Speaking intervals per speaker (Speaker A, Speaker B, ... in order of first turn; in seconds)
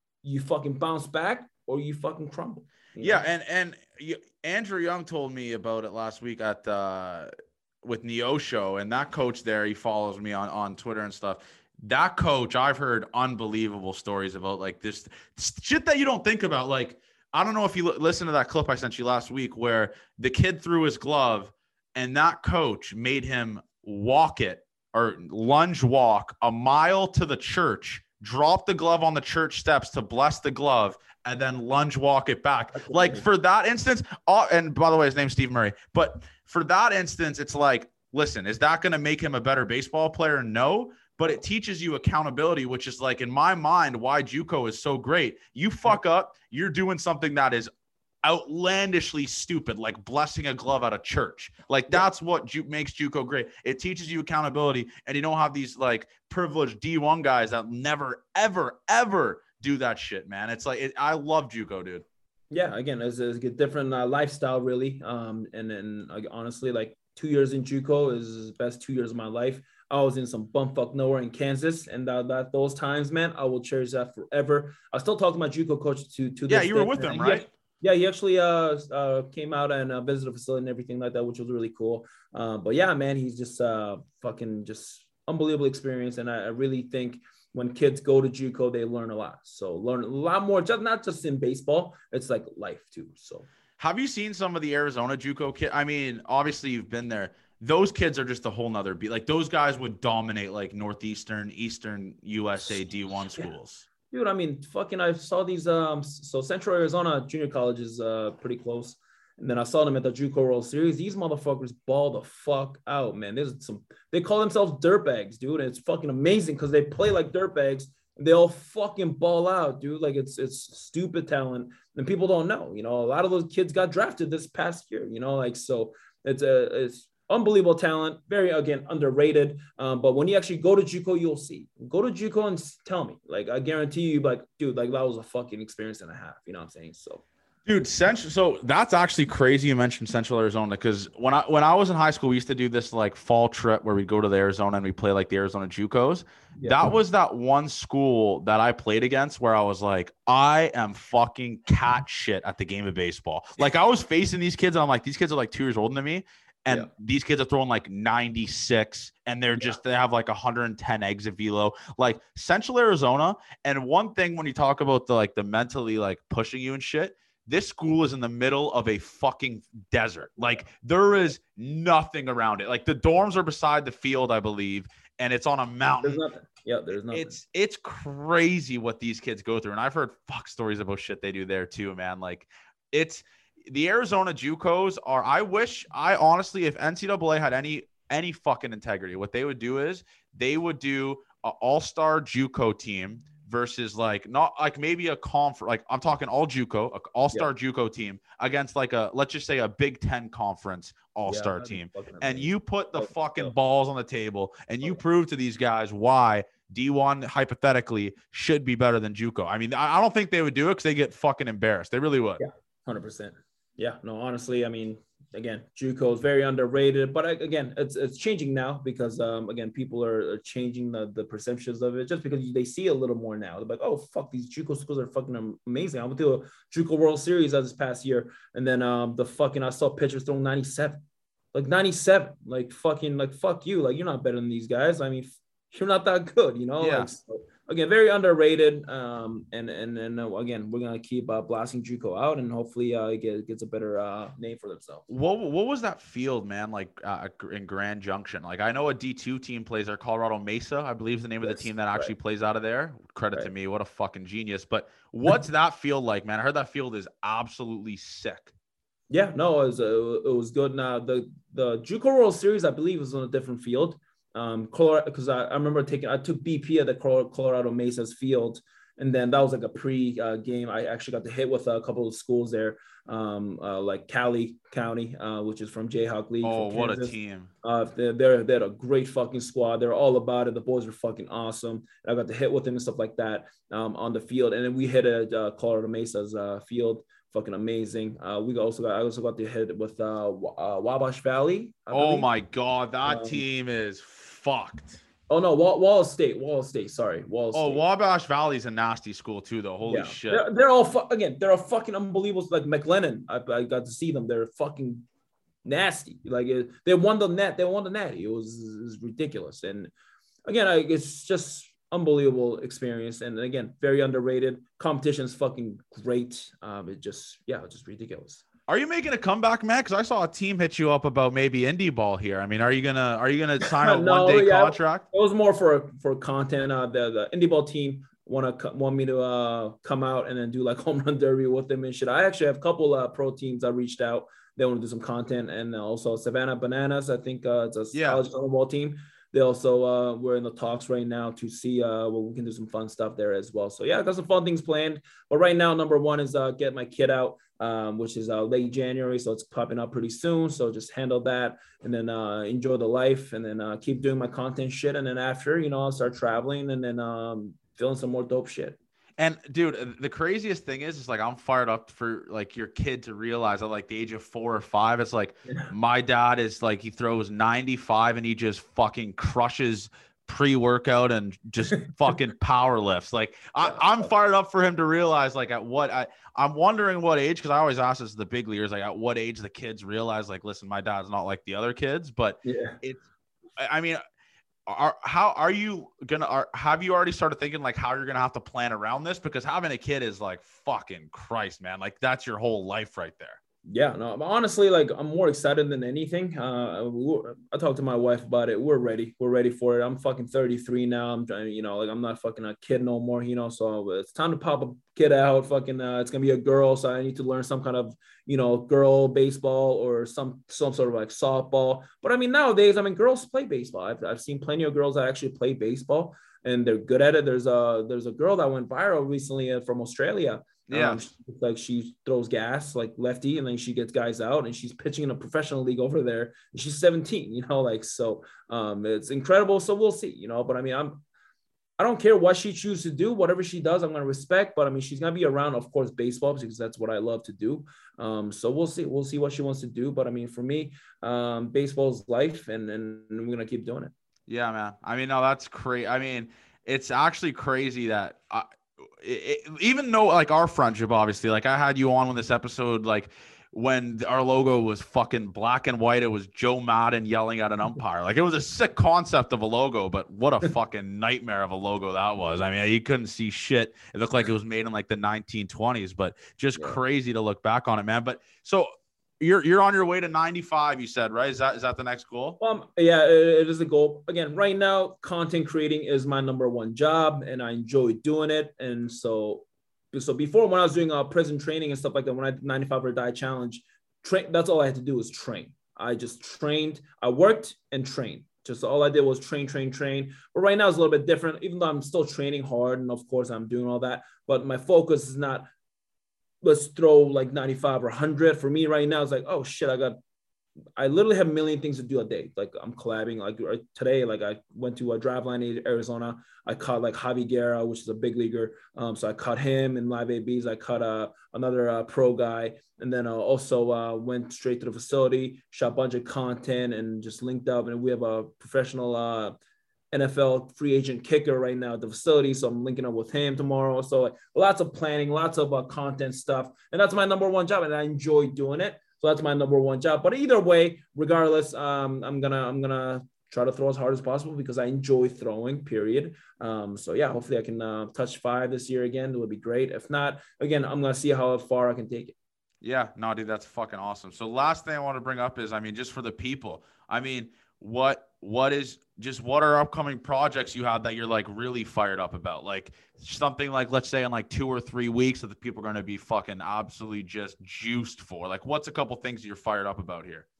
Speaker A: 0.2-3.2, 32.7-33.2, 62.5-93.5, 104.1-137.2, 146.6-146.9, 176.0-177.4, 201.3-203.5, 212.4-231.0, 231.5-245.1, 251.4-252.1, 259.1-292.3, 293.1-293.4, 295.3-297.8, 299.8-305.1, 305.6-309.9, 310.4-318.4, 323.7-358.8, 373.6-374.1, 382.4-382.8, 393.7-431.0, 431.8-443.9, 472.4-495.5, 496.4-500.0, 500.8-519.4, 519.9-542.1
Speaker B: 3.0-7.3, 7.8-47.7, 48.2-62.0, 76.5-77.5, 93.8-103.9, 137.7-176.2, 177.1-212.4, 236.8-237.1, 245.1-258.5, 276.4-277.5, 291.9-295.0, 297.5-300.4, 318.7-325.1, 337.9-338.2, 359.2-383.0, 383.6-384.0, 384.7-393.4, 420.7-421.0, 444.3-448.5, 449.0-468.7, 469.2-472.4, 542.6-560.2